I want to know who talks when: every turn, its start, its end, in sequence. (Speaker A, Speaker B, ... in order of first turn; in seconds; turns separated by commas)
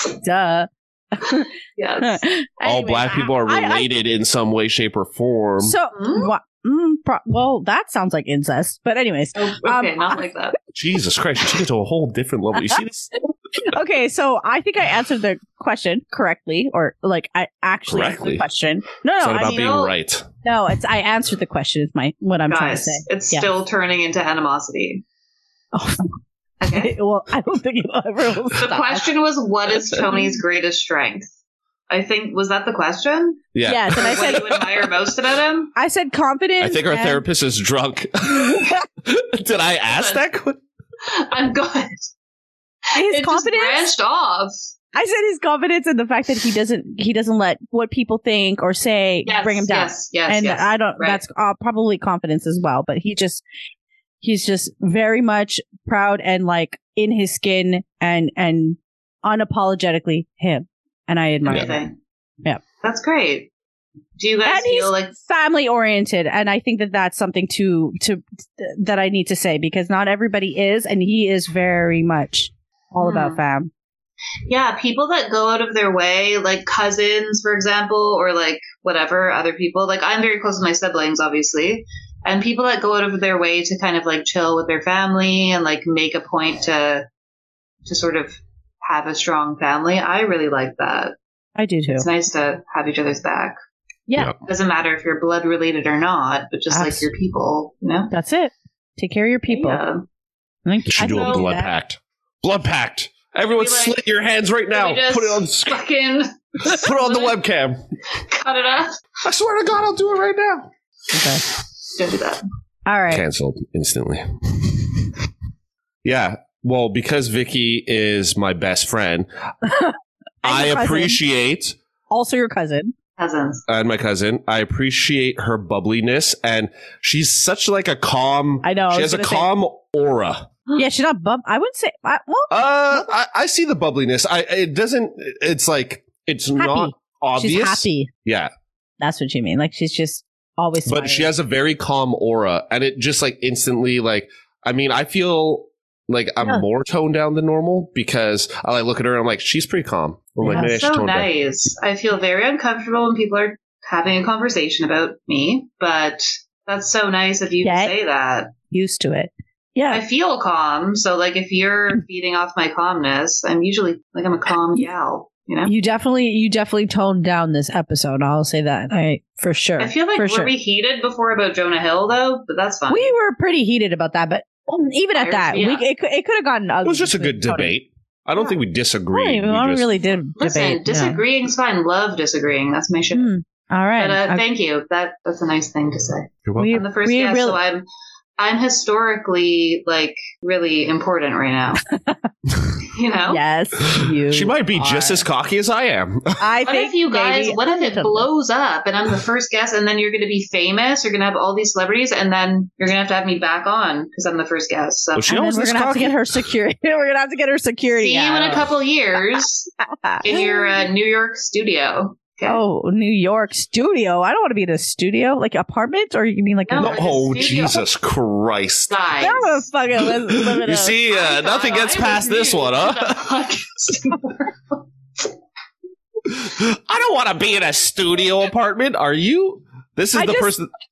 Speaker A: 0.2-1.5, Speaker B: 1.8-2.2, Speaker A: 2.0-3.9, Speaker C: 2.6-5.7, Speaker A: 5.6-10.2, Speaker B: 5.9-6.3, Speaker B: 9.3-10.6, Speaker C: 10.7-13.1, Speaker A: 13.6-19.7, Speaker C: 17.9-18.4, Speaker C: 19.2-20.3, Speaker B: 19.4-19.9, Speaker A: 20.4-23.5, Speaker B: 22.5-25.0, Speaker A: 25.7-26.1, Speaker B: 26.6-26.9, Speaker A: 26.7-29.1, Speaker B: 28.6-31.3, Speaker B: 31.9-35.7, Speaker C: 33.5-34.6, Speaker A: 33.6-34.6, Speaker A: 35.7-37.2, Speaker C: 36.6-40.6, Speaker A: 38.4-38.8, Speaker B: 39.9-40.2, Speaker B: 41.0-42.0, Speaker A: 42.9-43.9, Speaker B: 43.0-44.6, Speaker A: 44.9-53.4, Speaker B: 49.2-51.2, Speaker A: 54.2-61.9, Speaker B: 61.5-61.9, Speaker B: 62.8-63.5, Speaker B: 64.2-65.1, Speaker A: 64.4-73.7, Speaker B: 73.0-73.4, Speaker B: 74.5-87.1, Speaker B: 87.8-91.2, Speaker A: 91.5-92.0, Speaker B: 92.0-93.6, Speaker B: 94.5-98.1, Speaker A: 96.7-97.1, Speaker A: 98.1-99.8, Speaker B: 99.5-100.0, Speaker A: 100.7-101.7, Speaker C: 100.9-105.8, Speaker B: 101.0-101.4, Speaker B: 103.5-104.0, Speaker B: 104.7-107.4, Speaker C: 106.6-107.8, Speaker B: 108.2-109.0, Speaker C: 109.2-110.7, Speaker A: 111.1-111.4, Speaker B: 111.9-112.4, Speaker A: 112.8-113.2, Speaker C: 113.1-115.1, Speaker C: 116.0-119.3, Speaker A: 119.6-121.2, Speaker C: 120.4-121.8, Speaker A: 122.1-122.9, Speaker B: 123.2-123.6, Speaker C: 123.7-130.5, Speaker A: 128.6-129.5, Speaker A: 130.8-133.0, Speaker C: 132.5-138.5, Speaker A: 136.6-138.1, Speaker A: 139.0-141.3, Speaker C: 140.8-151.3, Speaker A: 150.4-150.8, Speaker B: 150.5-158.5, Speaker A: 157.6-157.9, Speaker A: 158.7-160.0, Speaker B: 159.9-165.7, Speaker A: 165.7-170.5, Speaker B: 169.8-173.1, Speaker A: 172.9-177.7, Speaker B: 175.1-175.8, Speaker C: 176.8-179.9, Speaker A: 179.1-181.2, Speaker B: 180.4-183.3, Speaker A: 183.1-184.4, Speaker B: 184.0-187.8, Speaker C: 186.4-186.8, Speaker A: 186.6-187.6, Speaker B: 188.4-191.8, Speaker A: 191.9-192.3, Speaker B: 192.9-193.4, Speaker A: 193.3-195.2, Speaker C: 193.9-196.4, Speaker A: 196.4-198.3, Speaker B: 196.6-205.3, Speaker C: 205.1-206.4, Speaker A: 205.3-208.7, Speaker B: 207.9-209.7, Speaker A: 209.3-210.8, Speaker B: 210.2-212.6, Speaker A: 212.4-217.0, Speaker B: 216.7-217.8, Speaker C: 216.8-218.9, Speaker B: 218.9-219.7, Speaker A: 219.2-221.0, Speaker C: 220.1-223.2, Speaker B: 221.1-224.8, Speaker C: 226.2-230.7, Speaker A: 230.1-230.5